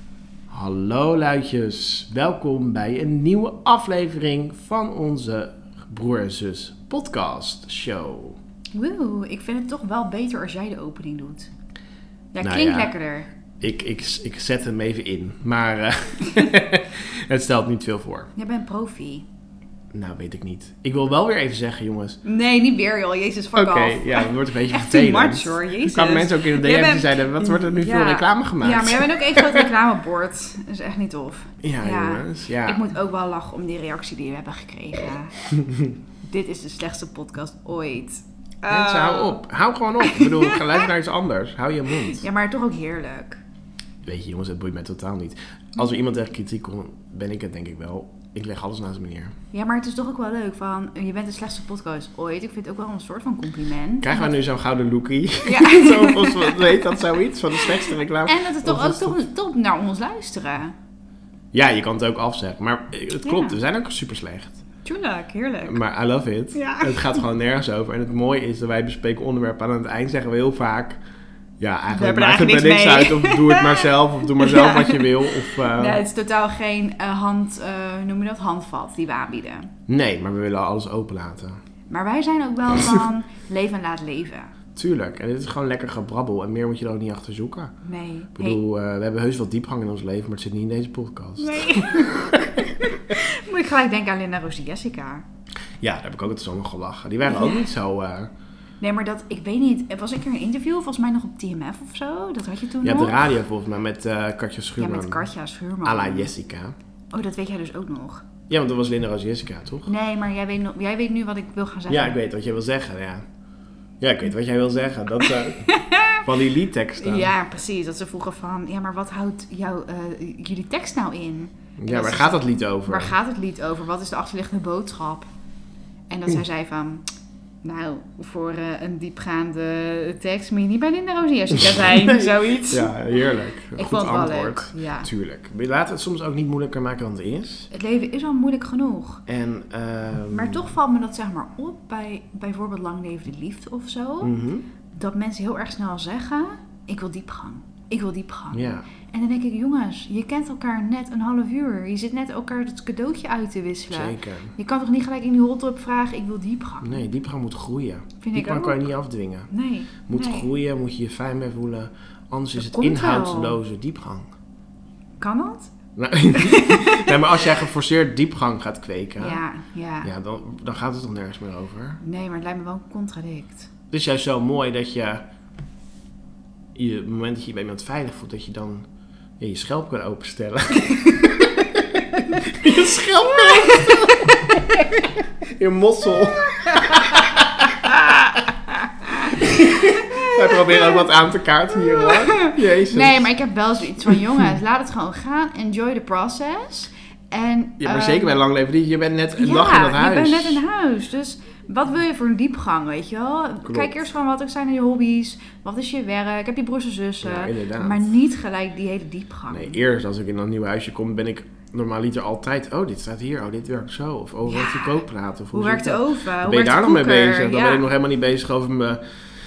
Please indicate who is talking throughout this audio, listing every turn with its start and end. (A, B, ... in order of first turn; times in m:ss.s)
0:00.5-0:08.4 A
0:08.7-0:11.5 B
0:12.3-0:13.3 B
0:12.4-0:12.9 A
0:13.6-0:18.3 A
0:18.3-0:19.3 B
0:19.9-0:22.2 A
0:22.2-0:35.4 B
0:23.5-0:29.7 A
0:31.6-0:32.8 A
0:35.5-0:35.9 A
0:36.2-0:39.4 B
0:38.7-0:42.3 A
0:40.0-0:40.8 B
0:42.0-0:43.4 B
0:44.0-0:49.3 A
0:49.5-0:54.3 B
0:54.0-0:59.2 A
0:55.4-0:56.8 B
0:57.8-1:00.7 B
1:01.5-1:04.6 A
1:03.2-1:03.6 B
1:04.8-1:05.8 B
1:05.6-1:11.0 A
1:06.5-1:07.2 B
1:11.6-1:16.0 A
1:11.9-1:19.7 B
1:19.9-1:21.6 A
1:21.9-1:24.5 B
1:24.7-1:27.7 A
1:27.8-1:28.6 B
1:28.3-1:32.5 A
1:31.4-1:35.2 B
1:35.8-1:38.3 A
1:37.2-1:37.6 B
1:38.8-1:43.4 B
1:42.8-1:45.3 A
1:44.8-1:46.3 B
1:45.8-1:46.7 A
1:47.1-1:48.2 B
1:48.5-1:49.9 A
1:49.8-1:52.2 B
1:51.9-1:53.2 A
1:54.0-1:57.3 A
1:55.6-1:56.2 B
1:57.0-2:05.3 B
2:01.8-2:03.1 A
2:06.1-2:07.0 B
2:07.6-2:13.0 B
2:11.8-2:17.7 A
2:13.7-2:15.1 B
2:17.7-2:19.2 B
2:19.3-2:20.7 A
2:20.3-2:24.3 B
2:24.2-2:24.7 A
2:24.9-2:37.0 B
2:28.5-2:28.9 A
2:33.9-2:34.5 A
2:36.8-2:39.5 A
2:38.2-2:38.9 B
2:39.5-2:40.5 B
2:40.1-2:44.3 A
2:42.6-2:43.6 B
2:45.2-2:45.7 B
2:46.0-2:49.4 A
2:46.3-2:47.2 B
2:49.2-2:50.1 B
2:50.0-2:52.0 A
2:52.0-2:53.7 B
2:53.9-2:55.2 A
2:56.7-2:58.8 A
2:59.4-3:08.2 A
3:03.6-3:03.9 B
3:09.2-3:13.3 A
3:10.0-3:11.0 B
3:11.8-3:18.4 B
3:17.8-3:20.6 A
3:19.4-3:29.8 B
3:23.6-3:24.0 A
3:27.2-3:28.1 A
3:29.5-3:39.0 A
3:34.4-3:35.0 B
3:35.5-3:37.9 B